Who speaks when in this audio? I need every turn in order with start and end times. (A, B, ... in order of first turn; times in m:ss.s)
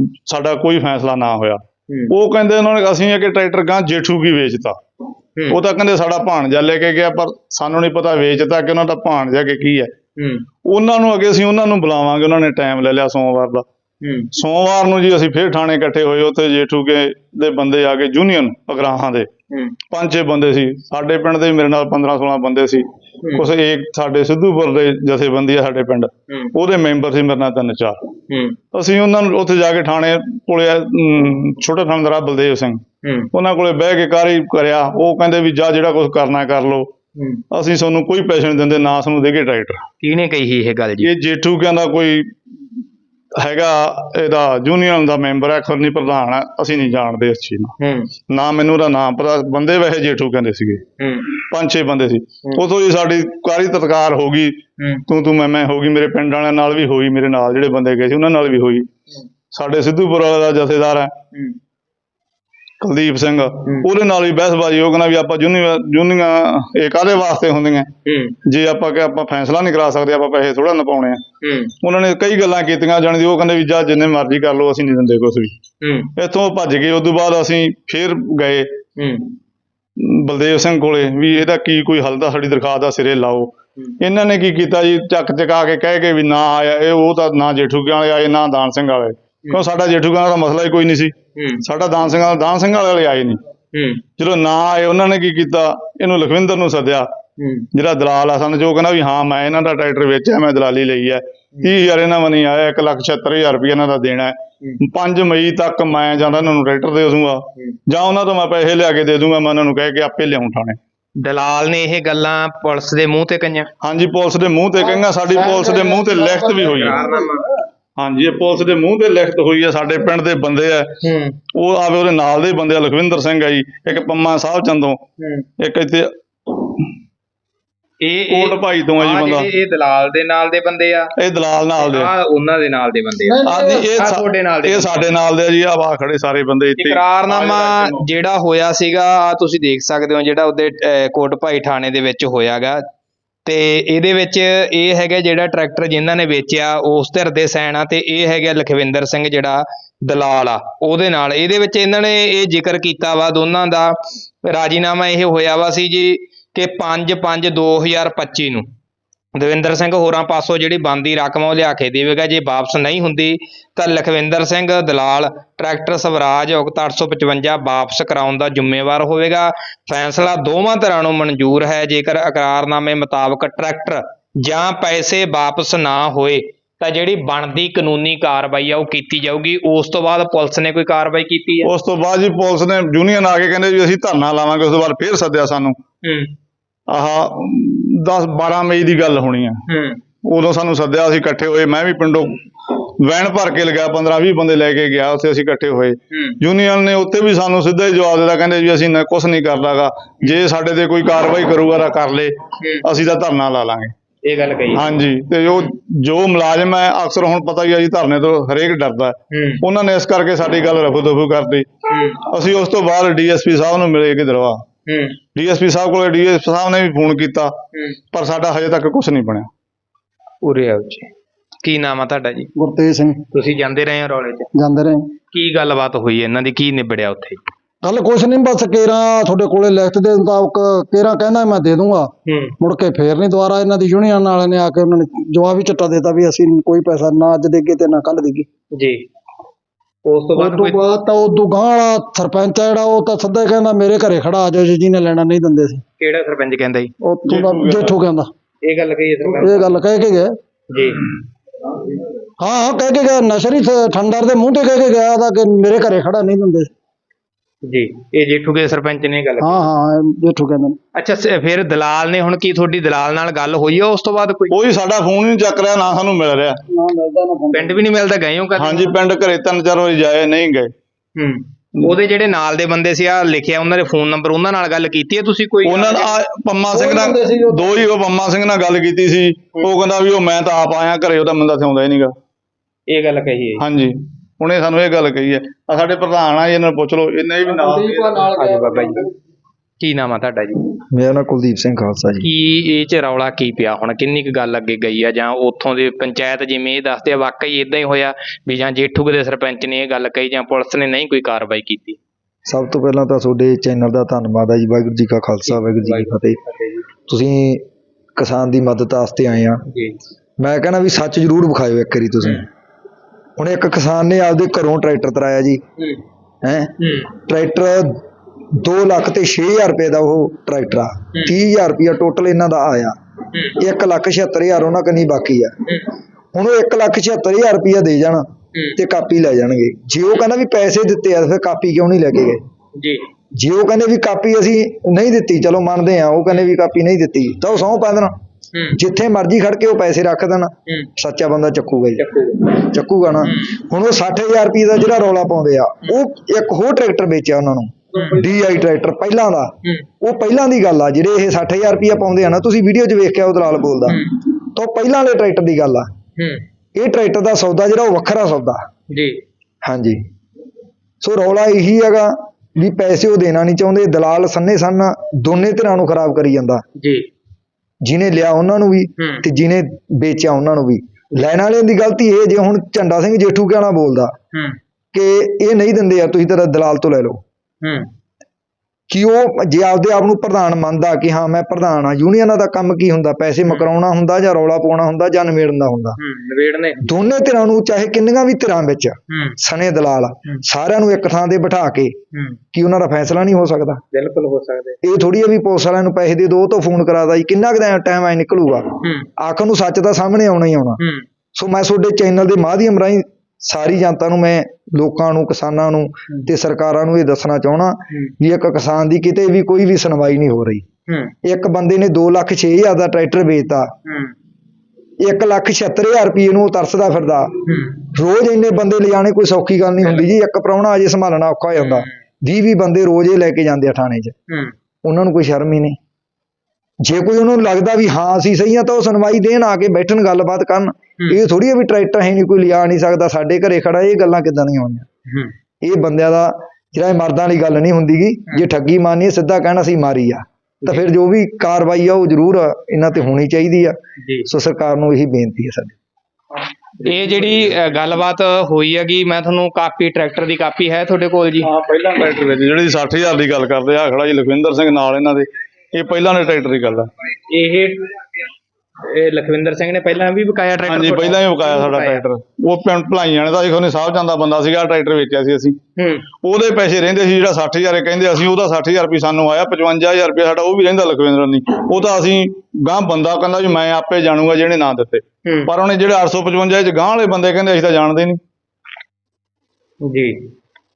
0:00.2-0:04.8 A
0:05.5-0:09.9 A
0:10.2-0:10.5 B
0:10.6-0:13.6 A
0:14.0-0:14.3 B
0:14.3-0:19.3 A
0:19.5-0:19.8 B
0:19.9-0:28.1 A
0:28.3-0:28.6 B
0:28.7-0:36.9 A
0:33.0-0:33.3 B
0:37.2-0:37.4 B
0:37.5-0:39.8 A
0:40.0-0:41.1 B
0:41.0-0:42.3 A
0:43.4-0:47.7 A
0:47.8-0:48.1 B
0:48.3-0:50.8 A
0:51.0-0:51.3 B
0:51.4-0:58.9 A
0:54.8-0:55.0 B
0:59.5-1:01.2 A
1:02.8-1:07.9 A
1:08.0-1:08.4 B
1:08.4-1:11.2 A
1:11.4-1:11.7 B
1:11.8-1:15.5 A
1:15.8-1:16.1 B
1:16.2-1:18.8 A
1:19.0-1:19.4 B
1:20.0-1:33.4 A
1:31.4-1:31.6 B
1:33.7-1:34.0 B
1:34.2-1:37.1 A
1:37.4-1:37.7 B
1:37.7-1:50.8 A
1:51.2-1:53.7 B
1:53.8-1:57.0 A
1:54.8-1:57.3 C
1:56.6-1:57.5 B
1:58.0-2:01.0 A
2:01.0-2:01.4 B
2:01.5-2:05.0 A
2:05.2-2:05.5 B
2:05.6-2:06.8 A
2:08.0-2:11.1 B
2:08.3-2:09.5 A
2:11.2-2:12.1 A
2:11.8-2:15.1 B
2:13.2-2:13.9 C
2:13.5-2:18.1 A
2:16.8-2:22.8 B
2:23.5-2:38.7 B
2:39.4-3:01.7 B
3:01.6-3:05.8 A
3:06.0-3:06.3 B
3:06.9-3:09.6 A
3:09.7-3:10.0 B
3:10.2-3:23.9 A
3:16.1-3:16.4 B
3:24.2-3:24.9 B
3:24.7-3:31.7 A
3:29.3-3:29.6 B
3:31.9-3:32.2 B
3:32.2-3:34.6 A
3:34.9-3:35.2 B
3:35.4-3:37.6 A
3:38.1-3:39.5 A
3:40.4-3:41.1 B
3:41.6-3:42.5 B
3:42.6-3:43.2 C
3:43.3-3:44.5 B
3:44.6-3:45.1 C
3:45.3-3:47.4 B
3:47.8-3:58.5 C
3:52.3-3:52.6 B
3:58.7-3:59.0 B
4:00.1-4:00.8 B
4:00.4-4:05.8 C
4:06.0-4:06.9 B
4:07.0-4:08.3 C
4:07.3-4:08.0 A
4:08.6-4:09.8 B
4:09.3-4:10.3 C
4:10.7-4:11.0 B
4:12.4-4:16.7 C
4:17.7-4:19.7 B
4:19.4-4:20.8 C
4:21.0-4:24.5 B
4:24.5-4:26.6 A
4:26.7-4:27.8 C
4:27.5-4:28.9 B
4:28.6-4:30.7 A
4:31.2-4:36.2 B
4:35.6-4:42.1 A
4:36.7-4:37.8 C
4:42.9-4:43.6 B
4:43.6-4:48.4 A
4:47.5-4:49.1 C
4:48.4-4:49.1 B
4:49.8-4:50.6 B
4:50.9-4:52.3 D
4:52.2-5:02.0 B
5:02.5-5:06.4 D
5:05.5-5:06.8 B
5:07.1-5:07.6 D
5:08.2-5:09.6 D
5:09.7-5:10.0 B
5:10.4-5:12.5 D
5:13.4-5:15.6 D
5:16.4-5:16.7 D
5:16.8-5:17.1 B
5:17.3-5:18.0 D
5:18.6-5:23.0 D
5:23.6-5:25.5 D
5:25.7-5:25.9 B
5:26.4-5:32.4 D
5:32.8-5:33.0 B
5:33.4-5:38.2 D
5:38.5-5:38.8 B
5:38.8-5:55.9 D
5:42.0-5:42.6 B
5:43.2-5:43.6 B
5:48.0-5:48.2 B
5:53.9-5:54.2 B
5:56.2-5:56.4 B
5:56.8-5:58.6 D
5:58.9-5:59.2 B
5:59.6-6:00.0 D
6:01.0-6:06.6 D
6:06.8-6:07.1 B
6:07.8-6:14.2 D
6:09.0-6:09.2 B
6:14.9-6:17.2 D
6:17.6-6:17.9 B
6:18.9-6:26.0 D
6:26.0-6:26.9 B
6:26.8-6:32.0 D
6:29.1-6:29.4 B
6:32.1-6:32.4 B
6:32.5-6:33.8 D
6:33.9-6:34.8 B
6:34.8-6:40.8 D
6:38.8-6:39.1 B
6:40.8-6:41.0 B
6:41.4-6:50.6 D
6:50.9-6:51.1 B
6:51.2-6:53.7 D
6:53.9-6:54.1 B
6:55.0-6:57.4 D
6:57.5-6:57.9 B
6:57.9-7:04.1 D
7:01.6-7:01.9 B
7:04.8-7:05.8 D
7:06.8-7:14.9 D
7:15.6-7:25.7 D
7:24.0-7:24.3 B
7:26.8-7:31.5 B
7:27.1-7:27.5 A
7:31.4-7:36.9 A
7:37.3-7:38.2 B
7:38.8-7:42.0 B
7:40.6-7:45.6 A
7:45.8-7:46.0 B
7:46.2-7:58.2 A
7:55.2-7:55.5 B
7:59.8-8:00.3 B